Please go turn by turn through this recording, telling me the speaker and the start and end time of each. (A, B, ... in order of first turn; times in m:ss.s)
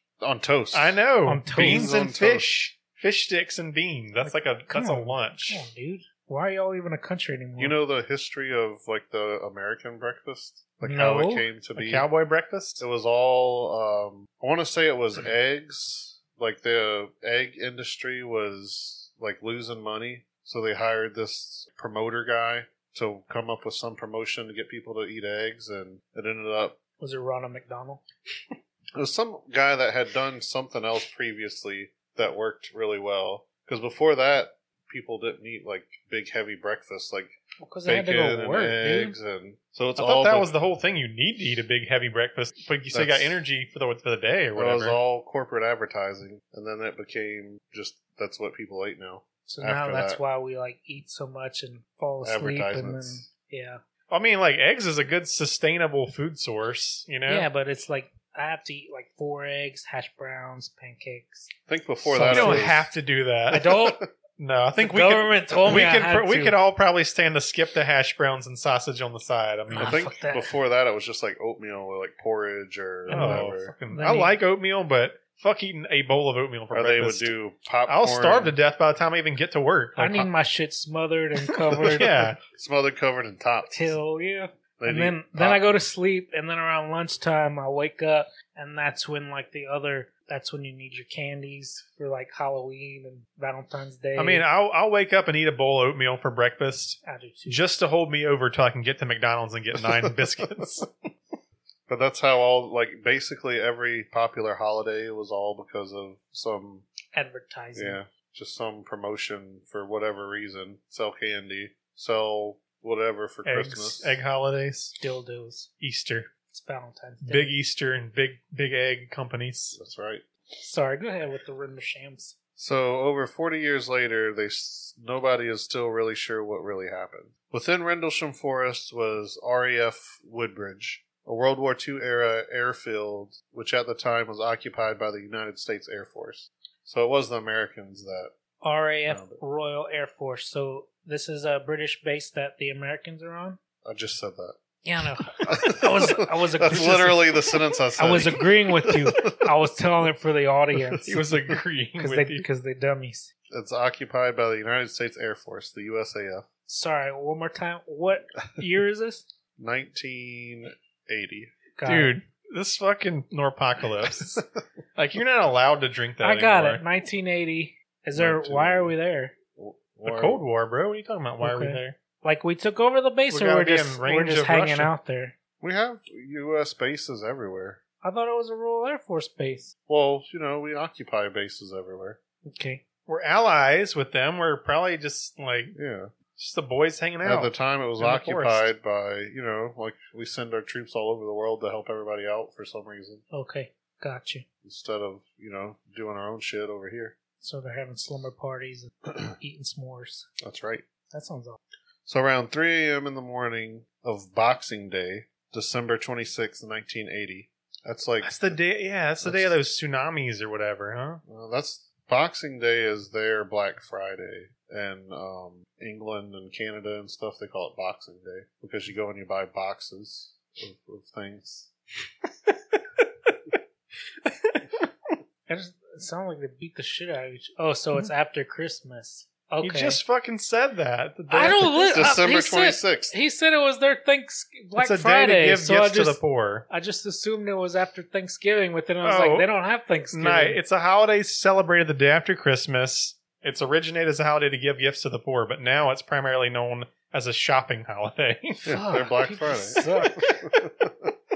0:00.2-0:01.0 A
0:00.7-0:05.6 B
0:01.3-0:01.9 C
0:01.5-0:02.5 A
0:04.2-0:07.8 C
0:07.6-0:12.1 A
0:10.8-0:11.5 C
0:11.8-0:12.8 B
0:12.8-0:26.8 A
0:27.0-0:28.0 C
0:29.0-0:40.5 A
0:37.6-0:39.2 C
0:40.0-0:45.0 B
0:42.9-0:43.4 A
0:44.6-0:50.2 A
0:49.5-0:53.8 C
0:52.2-0:53.3 A
0:54.1-0:57.5 B
0:57.3-1:01.5 C
1:01.7-1:02.9 A
1:02.0-1:02.7 C
1:02.3-1:03.8 B
1:03.5-1:04.0 C
1:04.4-1:10.0 B
1:04.8-1:06.6 C
1:09.7-1:13.7 A
1:09.7-1:10.5 C
1:13.1-1:14.4 C
1:13.1-1:17.4 B
1:16.7-1:18.6 A
1:17.9-1:20.3 B
1:20.0-1:22.3 C
1:21.8-1:24.0 A
1:21.9-1:22.4 B
1:23.7-1:34.4 C
1:24.8-1:25.6 A
1:34.2-1:40.9 B
1:37.0-1:37.6 C
1:39.8-1:40.1 A
1:41.9-1:46.9 A
1:47.1-1:48.0 C
1:47.8-1:54.2 A
1:53.4-1:55.0 B
1:55.0-1:55.7 C
1:55.8-1:56.3 B
1:56.5-1:57.5 C
1:57.2-1:59.8 B
1:59.7-2:00.2 A
2:00.6-2:02.4 C
2:02.6-2:18.3 A
2:18.6-2:23.6 C
2:19.1-2:19.4 A
2:23.8-2:24.6 A
2:24.8-2:27.4 C
2:25.5-2:29.4 A
2:28.0-2:31.2 C
2:30.9-2:31.2 A
2:31.0-2:32.5 B
2:32.0-2:33.3 C
2:33.5-2:36.5 A
2:36.7-2:39.3 C
2:39.6-2:41.5 A
2:41.8-2:42.2 C
2:41.8-2:44.4 B
2:45.0-2:46.8 B
2:46.2-2:49.4 C
2:48.2-2:48.9 A
2:49.6-2:50.4 A
2:50.0-2:52.0 B
2:51.4-2:55.4 C
2:53.3-2:54.9 B
2:55.6-2:57.8 A
2:58.0-2:59.7 C
2:59.9-3:02.2 A
3:02.4-3:02.8 C
3:03.1-3:05.8 B
3:05.8-3:06.2 A
3:06.4-3:08.7 B
3:07.2-3:13.2 A
3:13.3-3:14.4 C
3:14.6-3:17.2 A
3:17.4-3:20.3 C
3:20.4-3:20.8 A
3:21.1-3:21.6 C
3:22.1-3:28.3 A
3:28.2-3:31.2 B
3:29.2-3:29.6 A
3:31.3-3:41.7 A
3:44.3-3:44.8 B
3:45.5-3:50.0 C
3:49.6-3:52.1 B
3:51.3-4:00.6 C
3:51.9-3:53.2 A
3:54.8-3:56.7 B
3:59.0-3:59.5 B
4:00.1-4:08.7 B
4:08.6-4:11.1 A
4:08.7-4:10.2 C